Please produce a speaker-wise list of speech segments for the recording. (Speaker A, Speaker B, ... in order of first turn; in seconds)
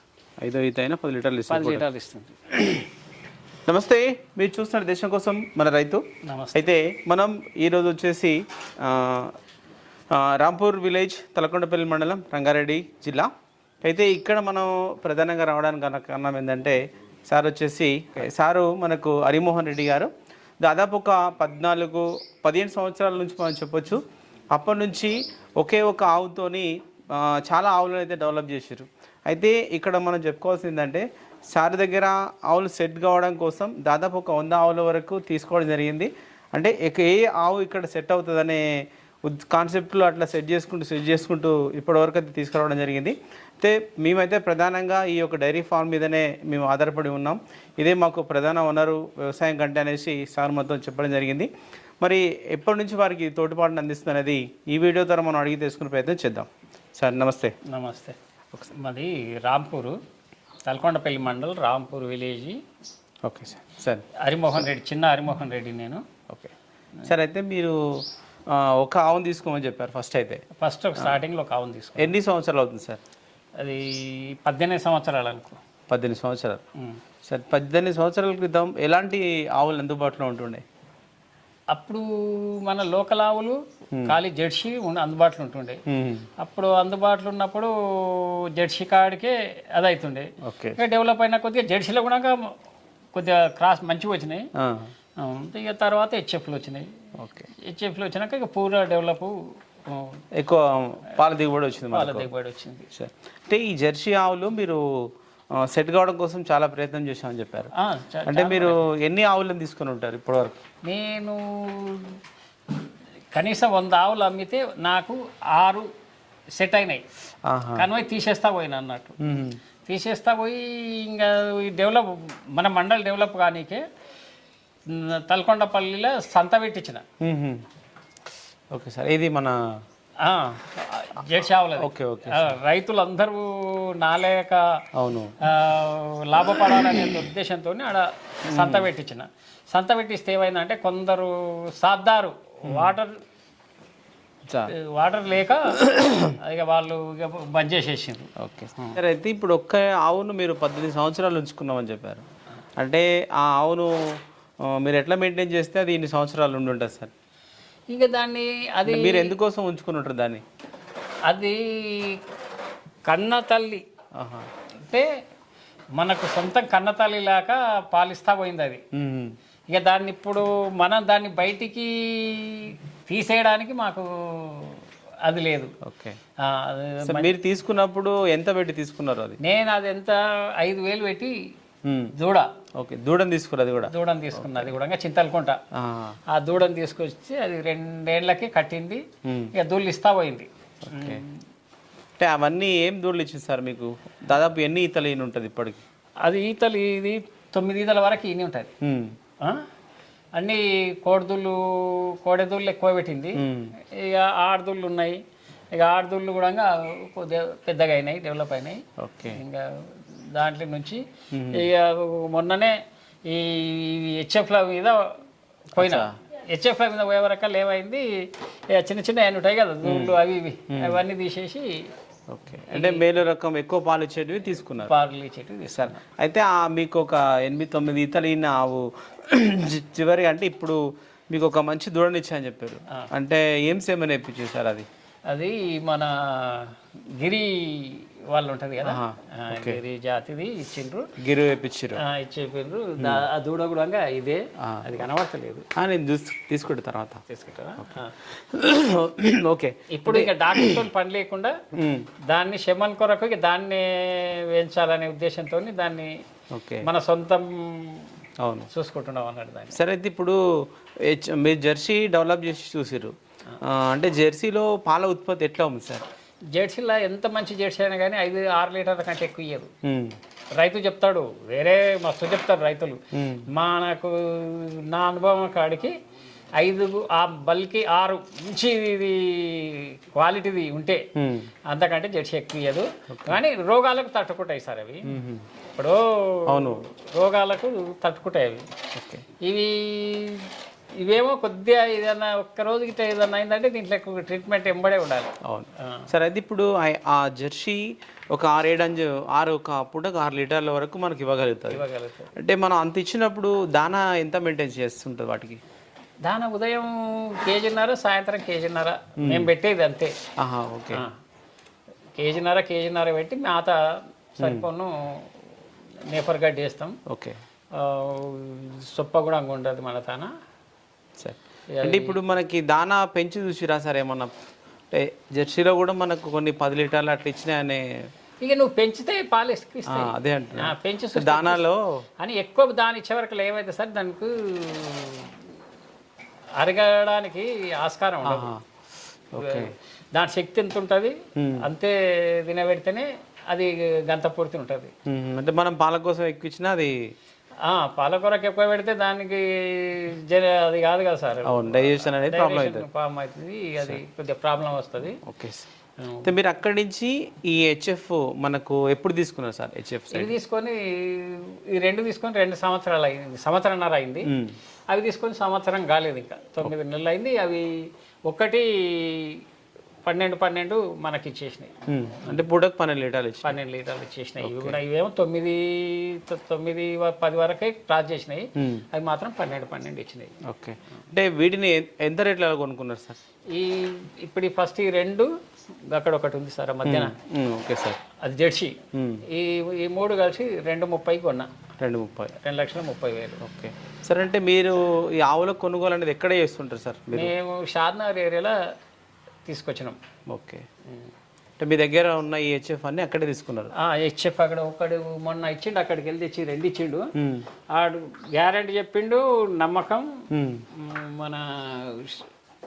Speaker A: 0.4-1.9, 2.5-2.9, 3.6-9.3, 10.1-13.3, 13.8-51.5, 52.0-57.5, 63.2-64.7, 67.0-70.4, 72.0-73.0, 75.9-76.6, 77.2-80.7, 85.9-86.3, 90.4-90.8, 94.6-94.9, 97.2-97.5, 100.3-102.3, 102.9-107.7, 108.3-110.6, 117.5-117.9, 119.2-119.6, 127.2-127.6, 128.7-129.7, 131.8-132.6, 134.9-135.3, 136.8-137.1, 138.5-138.9, 142.7-143.0, 144.5-144.7, 145.8-146.3, 148.4-152.2, 152.8-157.1, 158.9-160.4, 164.2-164.5, 168.9-169.3, 175.8-176.2, 177.1-179.4, 181.8-182.1, 182.8-184.7, 185.7-186.2, 189.2-189.5, 190.8-191.2, 192.2-195.8, 198.8-199.2, 203.4-203.7, 209.0-209.4, 211.3-211.7, 215.8-216.1, 219.8-221.0, 222.3-224.9, 225.7-230.8, 231.3-234.9, 238.8-239.8, 241.2-242.0, 243.0-243.2, 244.6-245.1, 245.8-247.2, 247.8-250.8, 251.8-252.1, 256.5-256.9, 258.4-258.7, 259.7-266.1, 269.8-270.2, 273.1-273.5, 281.2-281.5, 283.1-283.4, 285.1-285.5, 286.5-286.8, 288.9-289.2, 295.4-301.8, 302.4-305.6, 309.2-309.5, 310.4-311.0, 314.4-314.7, 317.1-317.4, 321.2-324.3, 324.9-328.1, 329.9-332.0, 338.2-338.6, 339.3-339.7, 341.4-341.6, 345.1-347.1, 351.4-352.9, 355.2-355.7, 356.2-360.3, 364.3-364.6, 371.9-373.6, 374.4-374.8, 378.6-378.9, 380.4-383.2, 386.9-388.0, 388.9-389.2, 391.8-392.3, 393.4-397.3, 400.3-400.7, 401.6-403.7, 407.2-407.5, 410.3-410.6
Speaker B: 1.5-2.4, 6.2-6.7, 57.6-60.0, 60.7-62.6, 64.2-66.0, 70.5-72.1, 73.6-75.6, 81.7-85.8, 86.4-92.5, 93.1-94.5, 95.2-96.9, 97.5-100.2, 101.9-102.9, 107.7-108.8, 110.8-112.2, 113.3-115.9, 116.6-117.0, 117.8-119.2, 119.9-123.8, 124.9-127.0, 130.2-134.8, 135.4-143.2, 144.7-149.0, 157.9-159.3, 161.3-162.2, 163.1-163.8, 166.0-168.8, 169.7-175.7, 176.4-177.3, 179.4-181.3, 182.2-182.5, 183.8-185.6, 186.3-189.0, 189.6-191.4, 196.2-198.7, 199.4-199.7, 200.4-205.2, 205.7-215.1, 215.8-221.8, 222.7-223.1, 224.8-226.0, 235.3-241.1, 242.0-245.7, 247.3-248.2, 249.9-251.6, 252.3-256.1, 256.8-258.1, 258.7-259.8, 266.5-269.7, 270.6-275.9, 276.6-281.1, 281.7-285.1, 285.7-288.7, 289.4-296.1, 301.7-302.3, 306.3-310.1, 312.2-313.8, 314.4-315.4, 316.1-317.0, 317.7-320.3, 321.7-322.2, 328.4-331.6, 332.2-335.4, 336.6-338.5, 339.4-344.9, 347.6-355.2, 356.0-356.3, 360.1-364.3, 364.9-369.4, 370.1-372.4, 373.4-380.4, 383.5-385.3, 385.9-387.1, 388.2-391.5, 392.4-393.4, 397.1-398.6, 399.5-400.0, 403.8-407.1, 407.7-412.3